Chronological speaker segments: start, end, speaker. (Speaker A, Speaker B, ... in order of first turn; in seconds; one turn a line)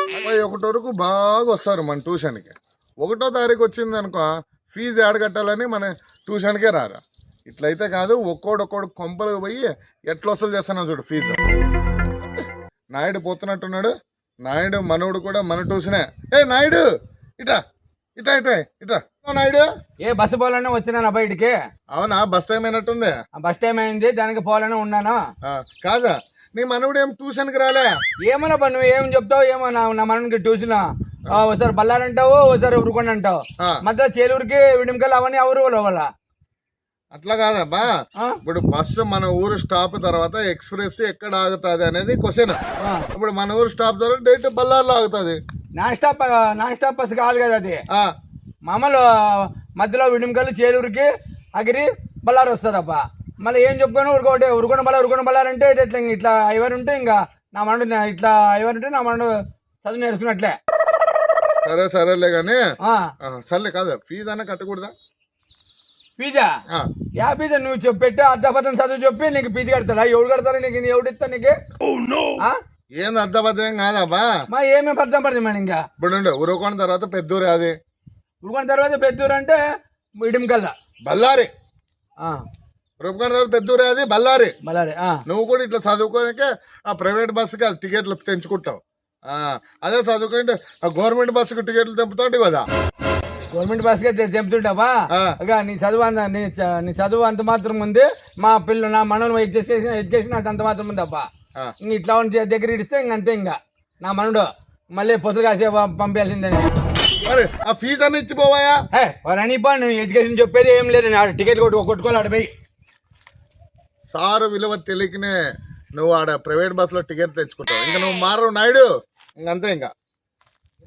Speaker A: 0.1-11.4
Speaker A: 12.9-13.9
Speaker A: 14.4-16.8
Speaker A: 18.2-19.7
Speaker B: 20.0-21.6
Speaker A: 21.9-23.1
Speaker B: 23.4-25.2
Speaker A: 25.4-27.9
Speaker B: 28.2-36.1
Speaker A: 37.1-42.6
Speaker B: 42.8-43.1
Speaker A: 43.1-45.4
Speaker B: 45.8-47.8
Speaker B: 48.6-60.6
Speaker A: 61.6-62.6
Speaker B: 62.8-63.1
Speaker A: 63.2-64.9
Speaker B: 66.2-66.6
Speaker B: 67.2-71.6
Speaker A: 73.0-74.3
Speaker B: 74.5-75.8
Speaker A: 76.0-77.7
Speaker B: 78.4-79.6
Speaker B: 80.2-80.7
Speaker A: 81.0-81.5
Speaker A: 83.0-84.5
Speaker B: 84.6-85.2
Speaker A: 85.3-92.7
Speaker B: 93.5-101.3
Speaker A: 95.1-95.3
Speaker B: 101.8-106.7
Speaker A: 107.2-108.8
Speaker B: 108.9-112.5
Speaker A: 114.1-115.3
Speaker A: 115.9-118.9
Speaker A: 119.4-119.9